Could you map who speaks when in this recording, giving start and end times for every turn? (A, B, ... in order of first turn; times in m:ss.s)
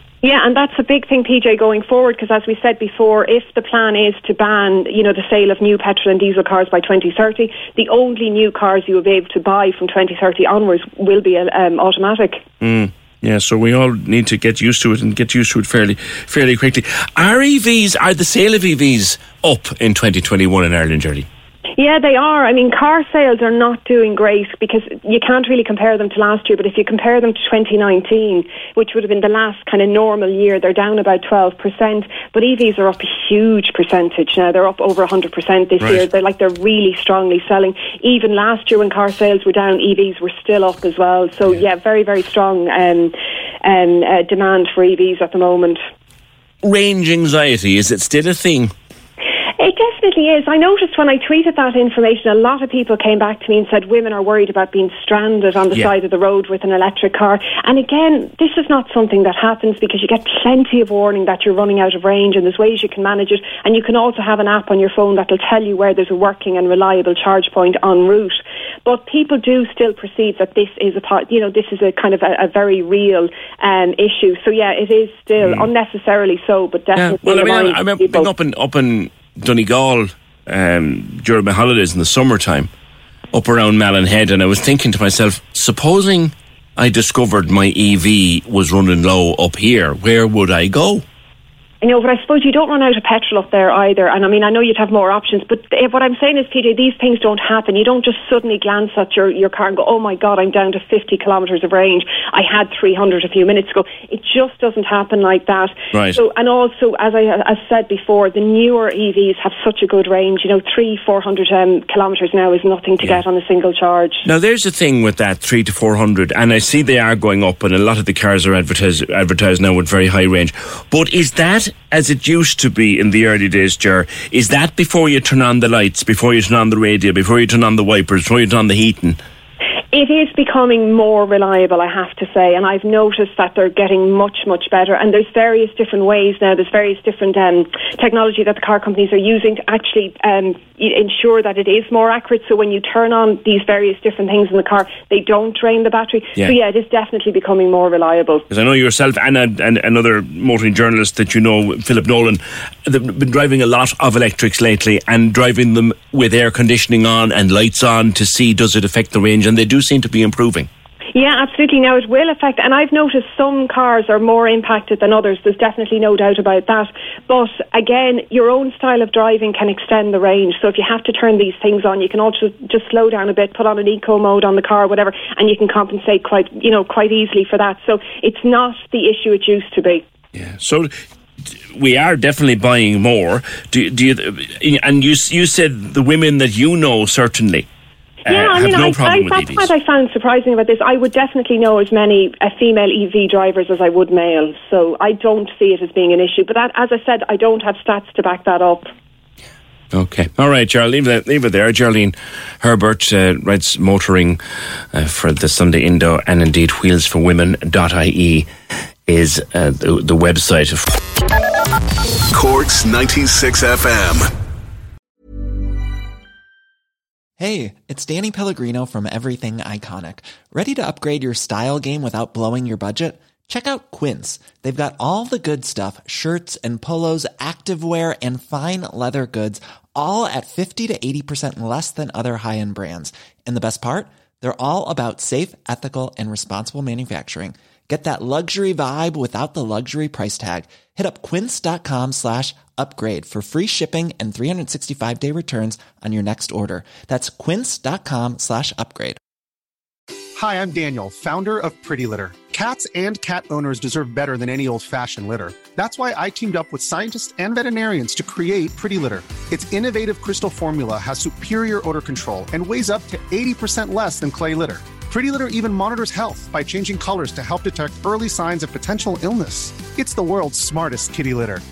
0:00.2-0:12.4 A
0:12.6-0:21.2 B
0:21.8-0:45.8 A
0:46.6-0:48.7 B
0:49.6-1:18.3 A
1:15.4-1:15.7 B
1:16.9-1:22.7 B
1:23.3-1:31.0 B
1:31.8-1:54.2 A
1:45.9-1:46.2 B
1:54.2-2:09.2 B
2:09.9-2:28.4 A
2:28.5-2:40.7 B
2:41.1-3:00.0 A
3:00.3-3:00.9 B
3:01.7-3:07.6 B
3:08.2-3:18.9 A
3:08.3-3:09.7 B
3:19.9-3:24.4 B
3:24.9-3:28.5 B
3:29.1-3:31.0 B
3:32.3-3:34.2 C
3:37.4-4:09.2 D
4:10.4-4:31.6 E